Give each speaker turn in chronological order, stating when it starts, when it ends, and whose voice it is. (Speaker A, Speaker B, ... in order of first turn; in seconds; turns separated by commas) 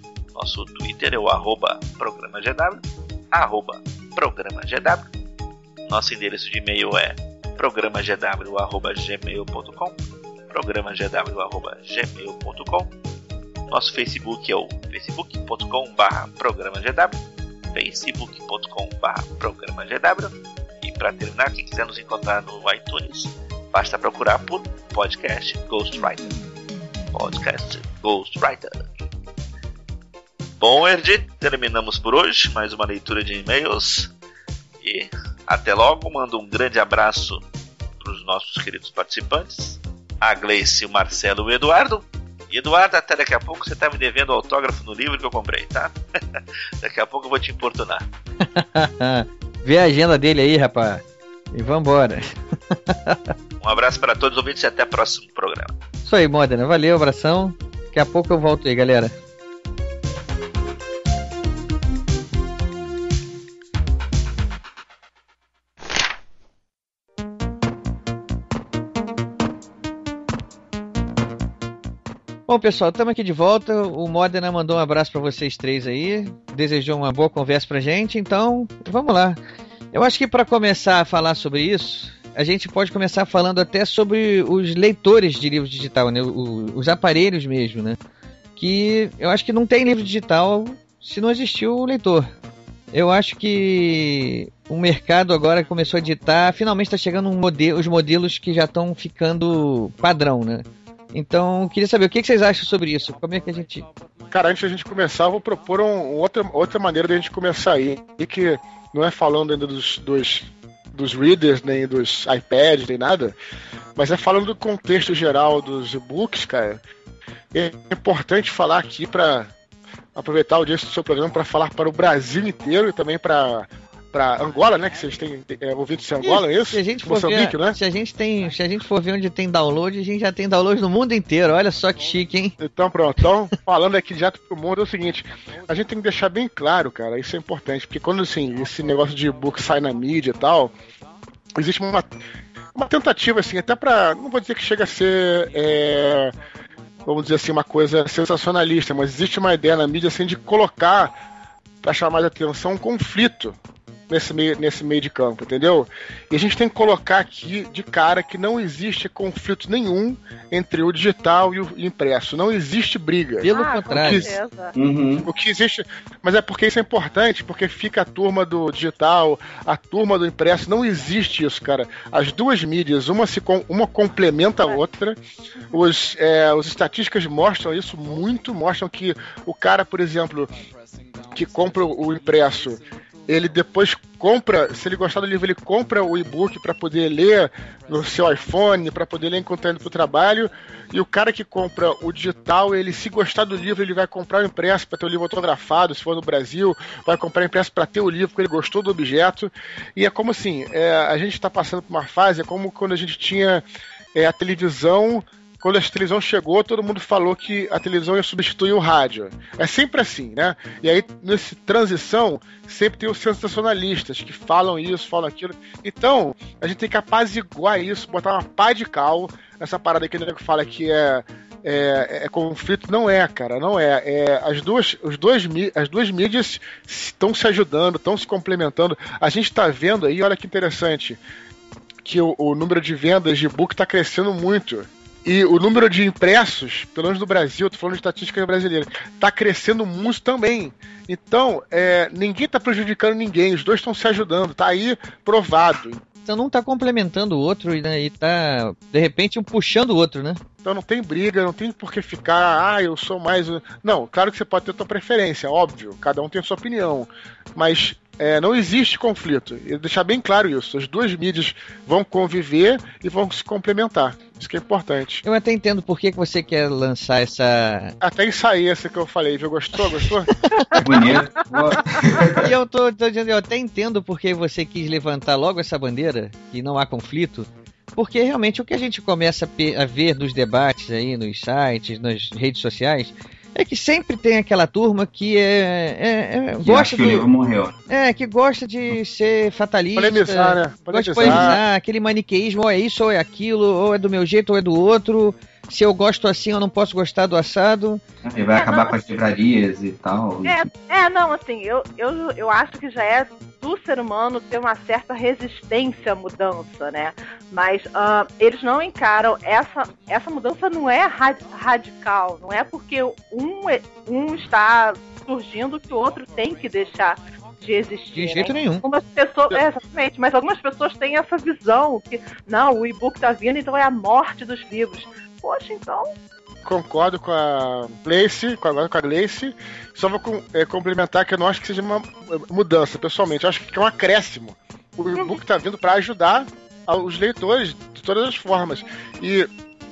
Speaker A: 0.3-5.1, Speaker A: 5.9-10.0, Speaker A: 10.5-12.9, Speaker A: 13.7-17.1, Speaker A: 17.7-26.3, Speaker A: 27.1-29.1, Speaker A: 30.6-34.1, Speaker A: 34.8-37.4, Speaker A: 38.0-48.1, Speaker B: 48.4-53.3, Speaker A: 53.6-55.8, Speaker B: 56.0-59.1, Speaker B: 72.5-79.4, Speaker B: 79.9-88.0, Speaker B: 88.6-92.3, Speaker B: 92.9-103.9, Speaker C: 104.3-113.4, Speaker C: 114.0-116.8, Speaker C: 117.5-119.5, Speaker C: 120.2-127.8, Speaker B: 126.2-132.6, Speaker C: 132.6-140.7, Speaker C: 141.6-142.2, Speaker C: 142.8-146.3, Speaker C: 147.1-151.1, Speaker C: 151.8-153.6, Speaker C: 154.1-164.3, Speaker B: 163.4-164.3, Speaker D: 163.5-164.8, Speaker E: 164.8-165.3, Speaker C: 165.2-175.2, Speaker C: 175.7-180.5, Speaker C: 181.3-203.6, Speaker C: 204.2-231.2, Speaker C: 232.0-246.0, Speaker B: 246.3-250.4, Speaker C: 250.6-265.2, Speaker B: 265.3-267.9, Speaker C: 268.0-270.4, Speaker B: 269.8-270.8, Speaker E: 270.8-272.5, Speaker B: 272.4-287.3, Speaker E: 286.6-287.8, Speaker B: 287.9-298.0, Speaker C: 290.0-291.6, Speaker E: 291.2-291.6, Speaker E: 298.2-300.7, Speaker D: 298.6-298.9, Speaker D: 300.4-326.1, Speaker B: 318.1-318.9, Speaker C: 326.6-339.5